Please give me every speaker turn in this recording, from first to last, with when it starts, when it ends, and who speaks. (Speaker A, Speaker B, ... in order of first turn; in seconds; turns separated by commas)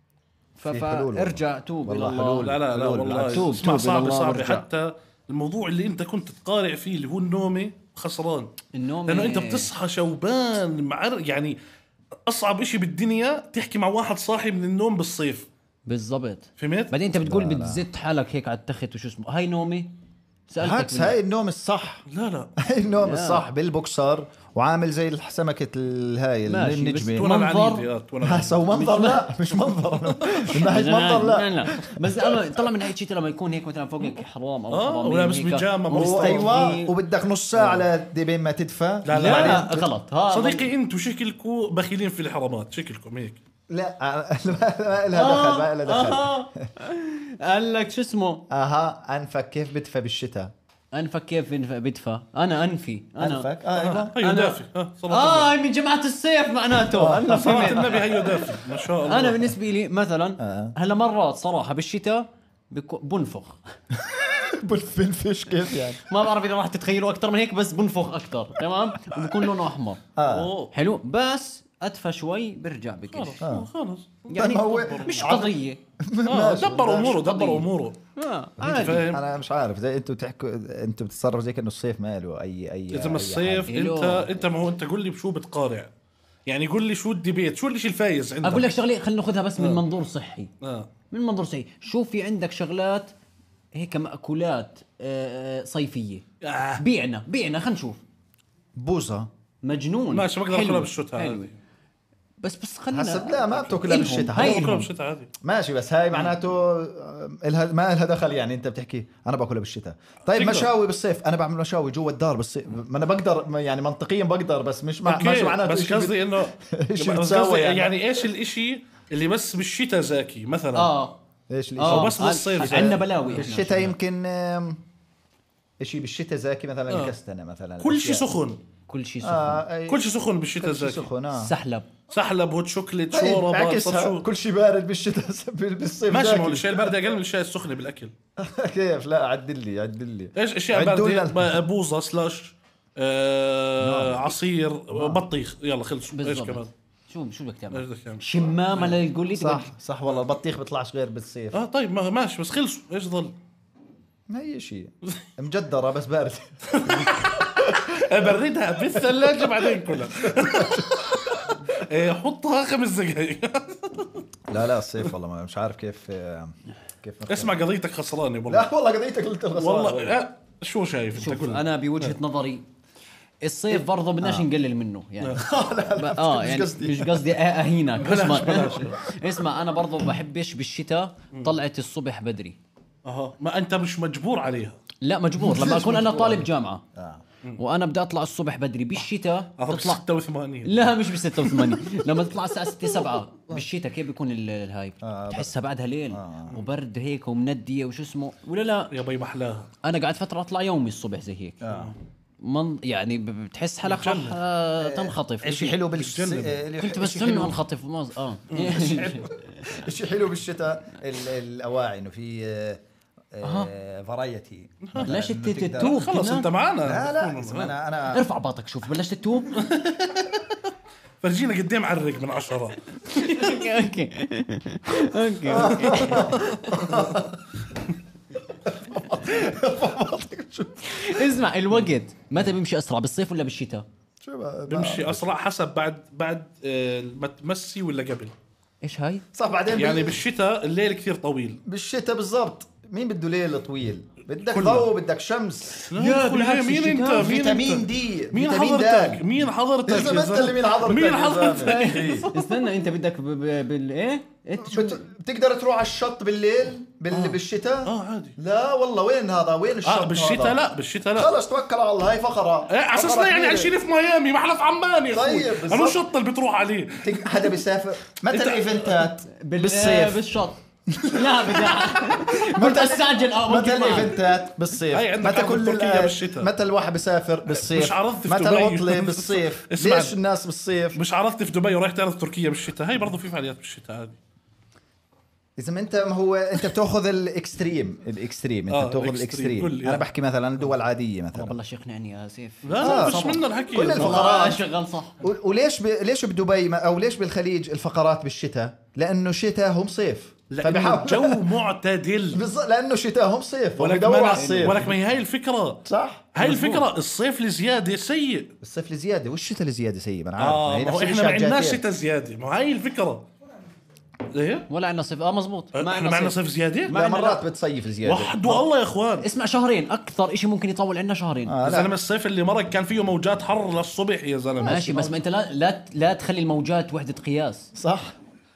Speaker A: 0.6-2.5, Speaker B: 0.7-3.6, Speaker C: 2.4-8.5, Speaker A: 3.3-4.6, Speaker A: 8.7-9.7, Speaker C: 9.1-11.6, Speaker C: 12.3-15.5, Speaker A: 15.9-19.9, Speaker C: 16.6-16.9, Speaker B: 17.2-17.9, Speaker A: 20.5-21.2, Speaker B: 20.6-22.1, Speaker C: 22.1-22.5, Speaker B: 22.6-27.3, Speaker A: 23.0-23.4, Speaker A: 26.5-27.9, Speaker C: 27.2-28.6, Speaker B: 28.2-31.7, Speaker A: 28.7-29.2, Speaker C: 30.1-30.4, Speaker A: 30.5-36.9, Speaker C: 34.7-36.7, Speaker B: 35.9-39.9, Speaker C: 39.0-39.7, Speaker A: 39.1-40.7, Speaker C: 40.3-43.4, Speaker B: 43.7-46.7, Speaker A: 45.1-48.4, Speaker B: 48.5-50.5, Speaker A: 50.9-53.5, Speaker B: 53.2-54.2, Speaker C: 53.7-55.5, Speaker A: 54.2-58.3, Speaker B: 56.9-58.1, Speaker C: 57.3-59.5, Speaker A: 59.0-63.6, Speaker B: 60.4-60.7, Speaker B: 63.9-66.0, Speaker A: 66.0-70.0, Speaker B: 70.2-70.5, Speaker C: 70.2-70.7, Speaker A: 70.7-73.4, Speaker C: 73.1-75.5, Speaker B: 73.4-73.7, Speaker A: 74.3-75.8, Speaker B: 74.3-77.2, Speaker C: 76.3-78.0, Speaker A: 77.0-79.1, Speaker B: 78.6-83.7, Speaker C: 78.6-79.2, Speaker C: 82.9-85.9, Speaker A: 83.7-84.4, Speaker C: 86.5-88.7, Speaker A: 88.4-90.5, Speaker C: 89.6-89.8, Speaker C: 90.6-90.9, Speaker A: 91.1-93.1, Speaker A: 93.7-96.2, Speaker C: 96.4-96.8, Speaker A: 96.8-98.0, Speaker B: 98.8-99.3, Speaker A: 99.6-101.5, Speaker C: 100.1-101.5, Speaker A: 102.4-104.8, Speaker B: 102.9-104.9, Speaker C: 103.6-105.3, Speaker B: 105.4-118.0, Speaker C: 110.3-110.7, Speaker C: 115.0-120.9, Speaker A: 120.7-121.2, Speaker B: 121.5-124.8, Speaker A: 121.8-124.0, Speaker C: 121.8-123.0, Speaker B: 125.8-128.3, Speaker C: 127.8-128.6, Speaker A: 128.9-129.6, Speaker B: 129.2-131.5, Speaker C: 129.9-131.1, Speaker A: 131.3-131.9, Speaker C: 132.1-134.2, Speaker B: 133.1-136.9, Speaker C: 136.1-138.1, Speaker B: 138.4-141.6, Speaker C: 140.4-146.7, Speaker B: 143.8-144.3, Speaker B: 144.9-145.2, Speaker A: 146.1-149.7, Speaker C: 147.7-148.9, Speaker B: 149.3-151.7, Speaker C: 151.5-153.3, Speaker B: 154.3-158.1, Speaker C: 156.7-164.2, Speaker B: 158.9-161.6, Speaker B: 164.5-167.6, Speaker C: 167.3-168.7, Speaker B: 168.5-170.2, Speaker C: 169.6-172.1, Speaker A: 171.1-172.6, Speaker A: 173.4-182.6, Speaker B: 174.2-174.4, Speaker B: 175.3-177.4, Speaker C: 178.0-179.0, Speaker C: 183.1-184.8, Speaker A: 185.0-186.8, Speaker B: 185.4-187.2, Speaker A: 187.6-190.0, Speaker C: 189.6-191.8, Speaker A: 190.6-198.9, Speaker B: 195.0-195.6, Speaker B: 196.1-196.6, Speaker C: 198.9-199.7, Speaker A: 199.8-201.6, Speaker B: 201.6-201.9, Speaker A: 202.4-205.8, Speaker C: 203.8-204.4, Speaker B: 204.8-207.6, Speaker C: 205.9-206.6, Speaker A: 206.8-209.5, Speaker B: 208.6-212.8, Speaker B: 213.3-216.0, Speaker A: 213.4-213.7, Speaker C: 214.8-215.1, Speaker A: 215.0-216.5, Speaker C: 215.8-217.7, Speaker B: 216.8-218.3, Speaker A: 218.1-219.6, Speaker C: 219.5-220.5, Speaker C: 221.2-223.7, Speaker A: 223.1-226.5, Speaker B: 225.4-227.4, Speaker C: 225.9-227.2, Speaker B: 228.4-231.3, Speaker A: 230.9-233.8, Speaker B: 234.2-235.4, Speaker C: 234.7-238.3, Speaker A: 238.8-239.3, Speaker B: 239.3-240.2, Speaker C: 239.7-241.6, Speaker B: 241.6-245.9, Speaker C: 244.5-244.9, Speaker C: 245.9-252.3, Speaker A: 245.9-247.4, Speaker B: 247.1-249.3, Speaker B: 249.9-252.3, Speaker A: 251.6-255.1, Speaker B: 254.6-260.6, Speaker C: 257.1-258.4, Speaker C: 259.8-261.3, Speaker B: 261.1-263.7, Speaker C: 262.7-267.4, Speaker B: 265.1-266.1, Speaker B: 267.0-270.2, Speaker C: 268.3-269.1, Speaker A: 269.3-274.2, Speaker B: 270.9-281.0, Speaker C: 274.9-276.5, Speaker C: 277.6-280.2, Speaker C: 280.9-284.2, Speaker B: 285.6-291.6, Speaker C: 288.7-290.0, Speaker A: 291.3-295.2, Speaker C: 292.6-294.5, Speaker B: 292.8-294.6, Speaker B: 295.2-301.6, Speaker C: 300.5-302.4, Speaker B: 302.3-304.9, Speaker C: 303.8-305.8, Speaker A: 304.3-305.0, Speaker B: 305.9-306.8, Speaker C: 306.3-308.5, Speaker B: 308.6-311.8, Speaker C: 310.4-313.3, Speaker C: 314.3-314.7, Speaker A: 314.7-316.4, Speaker C: 315.7-316.9, Speaker A: 316.9-317.4, Speaker B: 316.9-318.6, Speaker C: 318.0-319.3, Speaker A: 319.2-321.6, Speaker B: 321.4-321.9, Speaker C: 321.6-325.1, Speaker A: 324.6-327.7, Speaker B: 324.6-325.1, Speaker B: 327.7-328.2